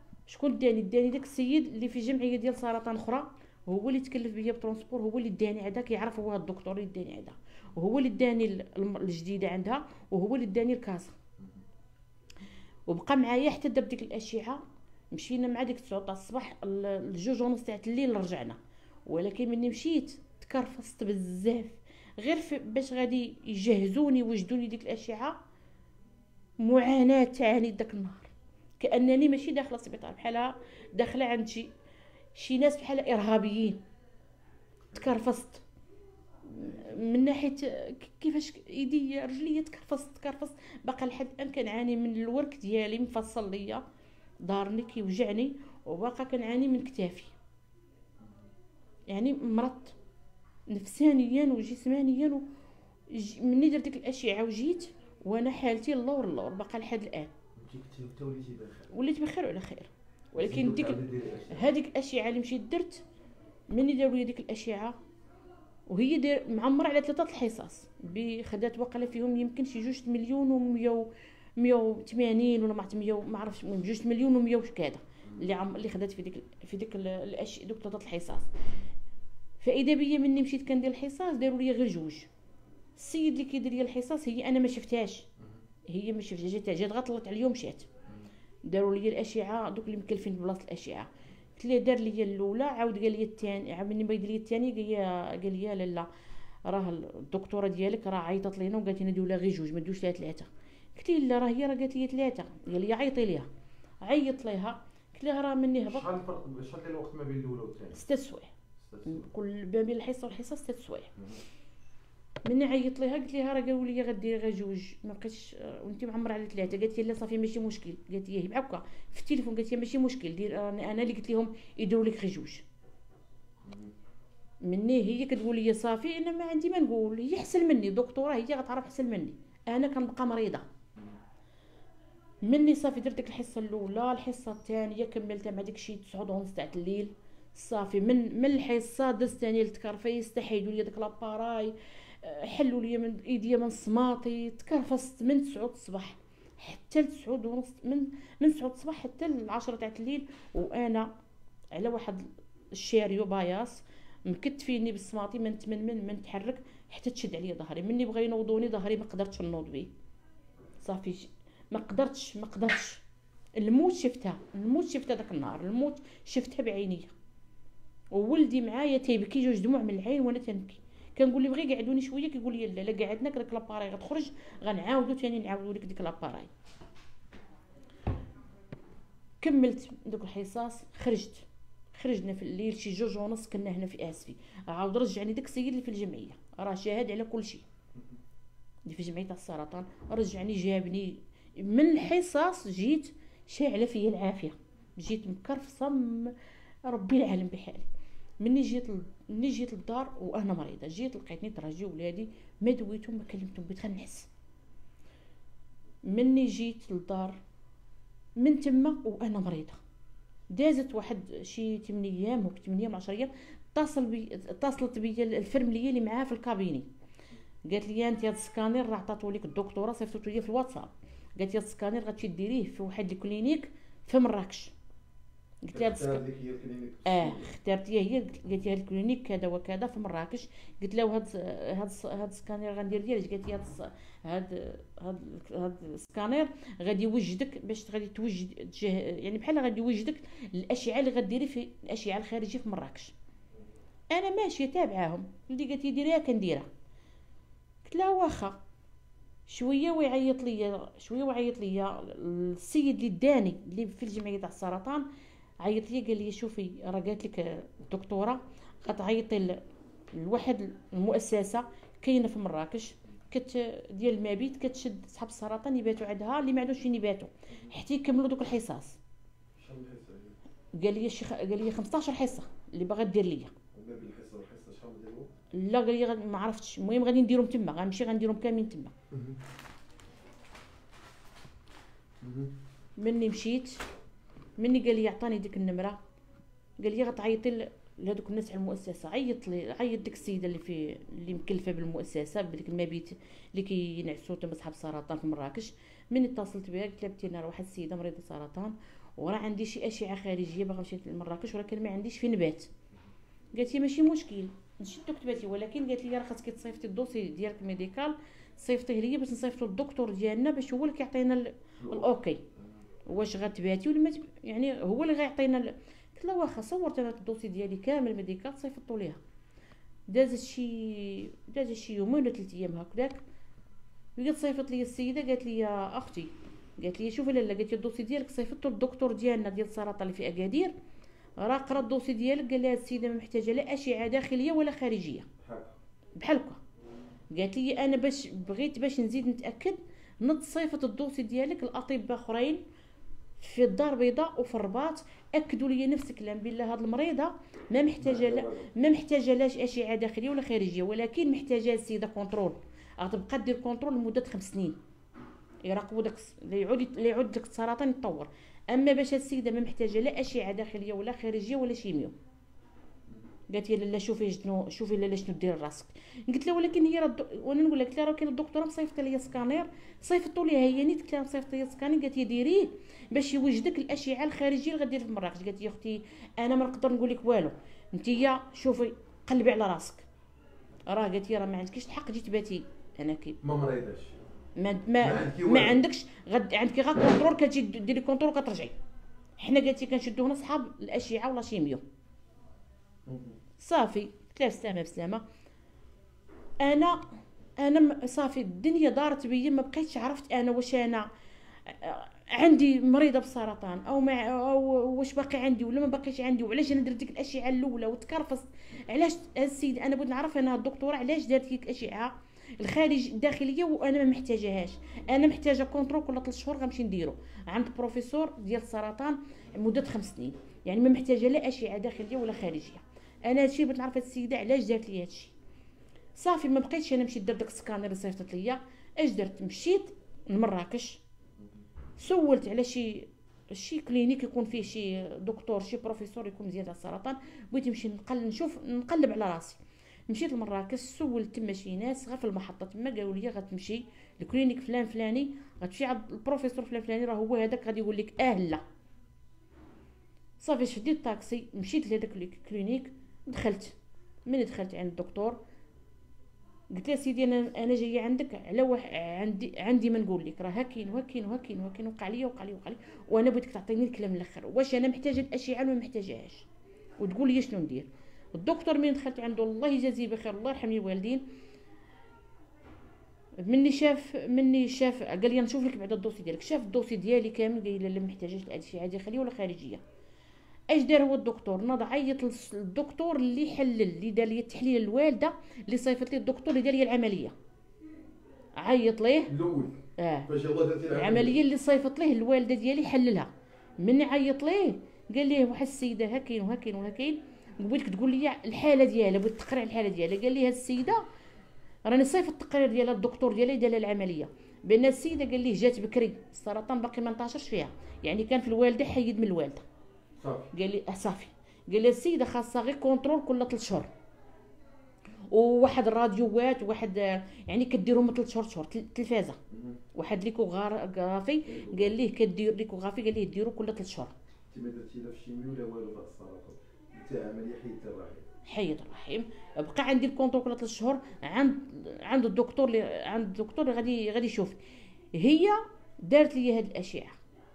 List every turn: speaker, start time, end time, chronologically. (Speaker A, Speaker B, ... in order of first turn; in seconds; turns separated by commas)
Speaker A: 0.3-11.2, Speaker A: 12.9-25.4, Speaker A: 26.6-31.7, Speaker A: 32.4-33.8, Speaker B: 34.9-35.2, Speaker A: 35.0-35.6, Speaker A: 36.5-43.8, Speaker B: 36.6-37.0, Speaker A: 44.5-47.3, Speaker A: 49.1-50.0, Speaker A: 50.7-52.4, Speaker A: 53.1-57.3, Speaker B: 57.6-59.0, Speaker A: 58.9-61.0, Speaker B: 60.4-61.7, Speaker A: 61.5-63.0, Speaker A: 63.7-65.0, Speaker A: 65.9-78.5, Speaker B: 75.2-75.5, Speaker A: 79.6-82.3, Speaker A: 83.0-85.3, Speaker A: 85.9-87.9, Speaker A: 88.7-96.1, Speaker A: 96.7-103.5, Speaker A: 104.0-106.1, Speaker B: 105.9-108.0, Speaker A: 107.9-108.5, Speaker B: 108.8-109.3, Speaker A: 109.1-111.1, Speaker B: 111.2-111.4, Speaker A: 112.5-122.7, Speaker B: 123.6-123.9, Speaker A: 124.6-130.6, Speaker A: 132.4-151.1, Speaker A: 151.7-159.9, Speaker A: 160.8-163.0, Speaker A: 163.6-167.1, Speaker A: 168.1-176.5, Speaker A: 179.4-187.6, Speaker A: 188.9-196.3, Speaker A: 196.8-197.9, Speaker A: 198.4-204.3, Speaker A: 206.1-207.4, Speaker A: 208.4-209.8, Speaker A: 210.5-216.9, Speaker A: 217.7-224.7, Speaker A: 225.6-226.2, Speaker B: 225.7-227.6, Speaker A: 227.1-243.1, Speaker A: 244.1-246.7, Speaker A: 247.8-248.6, Speaker A: 249.5-255.1, Speaker A: 255.6-259.6, Speaker A: 260.1-269.0, Speaker B: 267.5-267.8, Speaker B: 269.6-270.4, Speaker A: 270.8-273.5, Speaker B: 273.7-275.3, Speaker A: 275.5-278.9, Speaker B: 279.1-279.4, Speaker B: 282.2-282.5, Speaker A: 283.0-283.8, Speaker A: 284.6-286.0, Speaker A: 286.8-302.7, Speaker A: 303.6-312.4, Speaker B: 311.8-312.8, Speaker A: 313.1-319.2, Speaker A: 320.1-323.2, Speaker A: 324.2-330.7, Speaker A: 331.4-335.3, Speaker B: 335.4-335.8, Speaker A: 336.2-336.6, Speaker A: 337.3-342.6, Speaker A: 343.4-354.8, Speaker B: 348.0-348.7, Speaker A: 355.6-362.1, Speaker A: 363.5-380.1, Speaker A: 380.9-383.4, Speaker B: 383.4-384.2, Speaker A: 384.6-388.8, Speaker B: 385.0-385.8, Speaker A: 389.4-391.8, Speaker B: 393.1-393.4, Speaker A: 393.6-395.2, Speaker A: 396.6-397.1, Speaker A: 397.6-401.1, Speaker A: 401.7-425.3, Speaker A: 426.2-431.0, Speaker A: 432.0-448.6, Speaker A: 450.4-453.8, Speaker A: 454.3-455.4, Speaker A: 456.7-466.5, Speaker A: 467.0-471.2, Speaker A: 473.4-479.8, Speaker A: 480.7-487.3, Speaker A: 488.6-489.3, Speaker B: 489.3-491.4, Speaker A: 490.0-490.3, Speaker A: 490.9-501.0, Speaker A: 501.9-509.6, Speaker B: 510.2-510.5, Speaker A: 510.5-513.9, Speaker A: 515.3-519.4, Speaker B: 519.5-519.8, Speaker A: 520.0-524.1, Speaker B: 521.5-522.0, Speaker B: 524.5-528.3, Speaker A: 528.5-534.6, Speaker A: 535.1-537.2